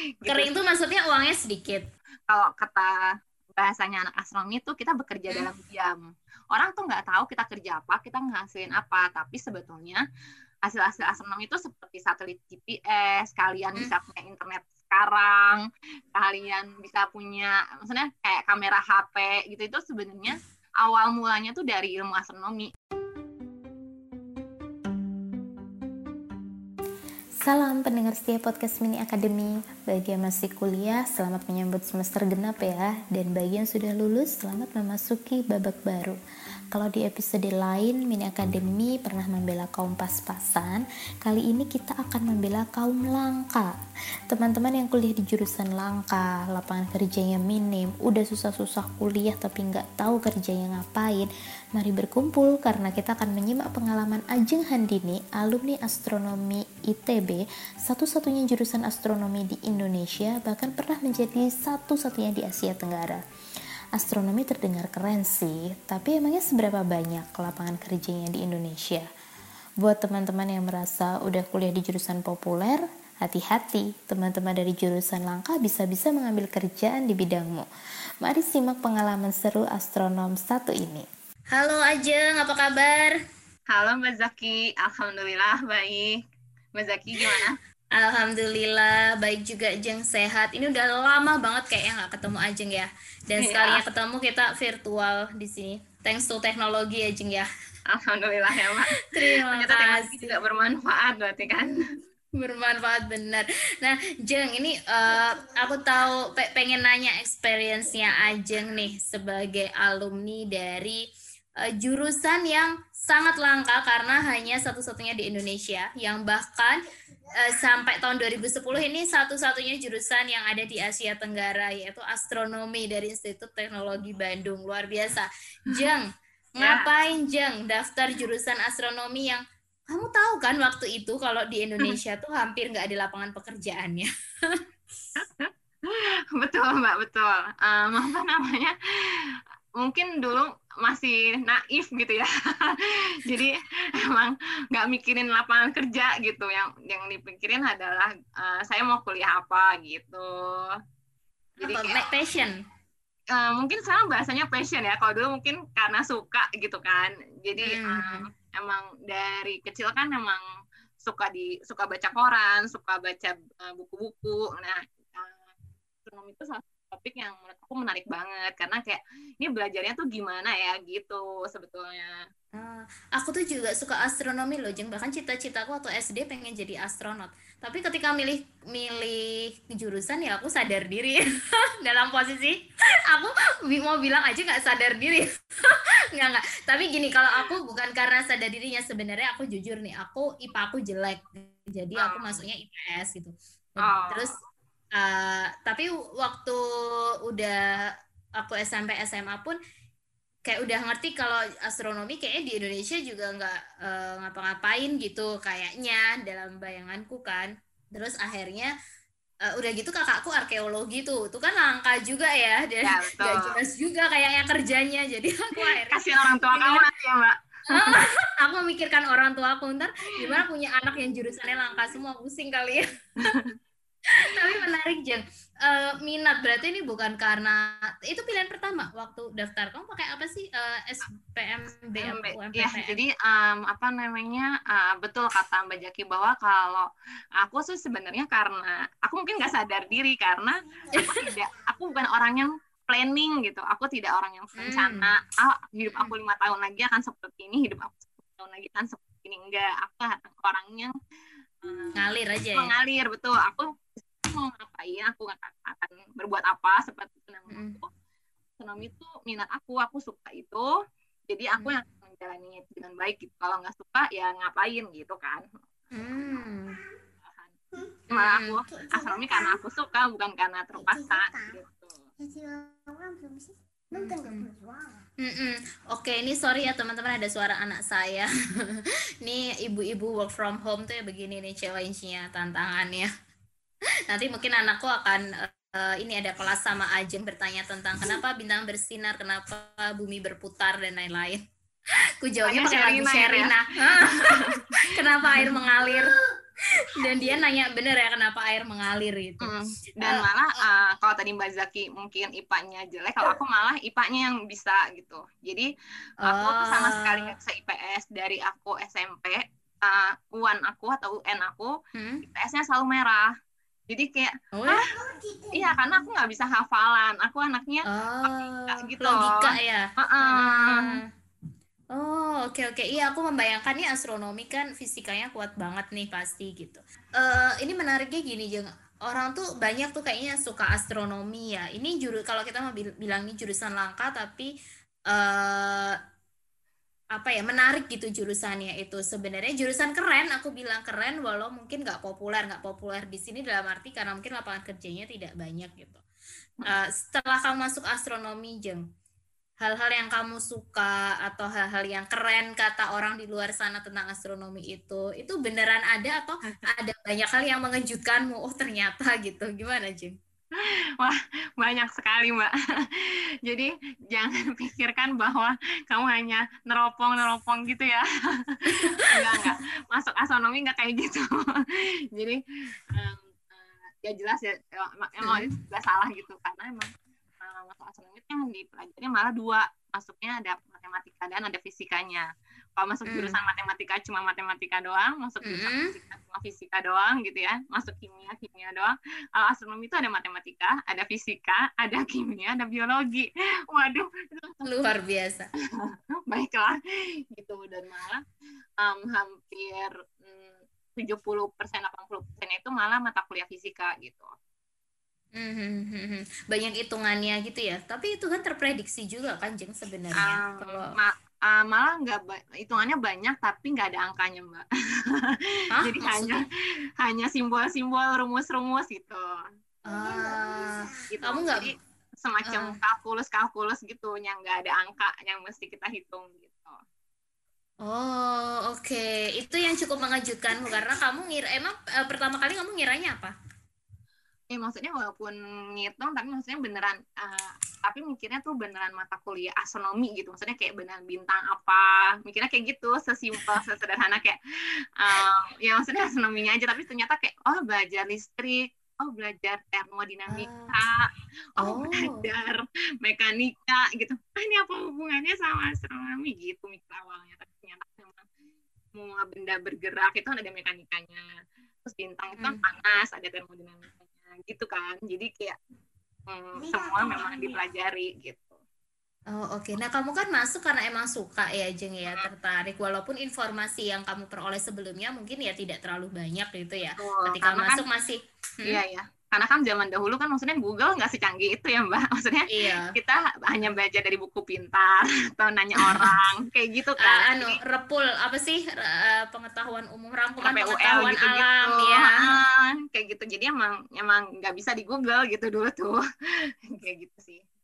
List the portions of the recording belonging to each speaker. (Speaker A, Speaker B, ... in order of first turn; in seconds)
Speaker A: 0.2-0.5, 2.3-2.9, 3.6-6.0, 6.5-10.0, 10.6-15.6, 16.1-22.7, 83.7-86.2, 86.8-87.5, 93.4-93.8, 97.9-101.8, 126.6-126.9, 135.2-138.7, 139.8-150.7, 151.6-152.0, 153.3-160.4, 161.0-165.4, 166.0-172.2, 192.0-192.4, 193.8-194.3, 212.8-213.6, 215.6-218.0, 223.2-223.5, 232.0-236.9, 237.4-250.9, 251.6-252.0, 252.6-257.9, 258.6-260.7, 261.3-265.4, 267.2-267.5, 268.1-272.1, 292.4-294.6, 295.2-295.6, 299.4-305.7, 306.2-311.7, 312.2-313.3, 313.9-314.8, 315.5-320.9, 361.0-368.0, 368.6-372.4, 372.9-376.9, 377.4-394.7, 395.9-396.8, 397.3-398.2, 398.8-404.3, 410.2-416.4, 417.0-419.3, 421.1-426.8, 434.5-444.4, 445.0-458.2, 458.9-461.2, 461.8-465.6, 466.3-468.6, 477.0-477.8, 478.6-487.6, 490.4-496.0, 496.7-497.4
Speaker B: 0.3-1.8, 81.5-83.1, 88.0-97.5, 99.1-100.4, 102.3-111.0, 111.6-116.8, 117.4-126.1, 126.6-134.6, 151.6-152.5, 157.6-158.2, 172.6-181.2, 181.8-194.3, 194.9-196.6, 197.3-197.8, 198.4-199.6, 200.4-208.7, 209.5-216.8, 217.7-222.9, 224.2-233.0, 240.9-241.2, 244.6-245.1, 251.9-252.7, 257.5-257.8, 265.9-266.7, 268.1-268.6, 273.9-274.5, 275.2-283.1, 284.1-291.4, 292.2-296.1, 296.9-299.5, 306.2-307.3, 311.9-312.2, 314.5-314.8, 317.9-321.0, 321.9-334.5, 335.1-336.0, 337.1-346.0, 346.7-348.8, 349.6-360.1, 368.7-369.5, 375.2-375.5, 383.1-383.4, 385.4-385.9, 394.6-395.5, 405.4-410.9, 415.8-416.4, 419.9-421.7, 422.5-422.8, 427.8-433.3, 450.3-450.7, 451.6-452.2, 469.3-478.8, 482.5-482.9, 485.8-486.1, 487.0-492.1
Speaker C: 27.4-36.2, 36.7-43.7, 44.3-63.2, 64.0-69.0, 69.8-77.7, 78.2-81.0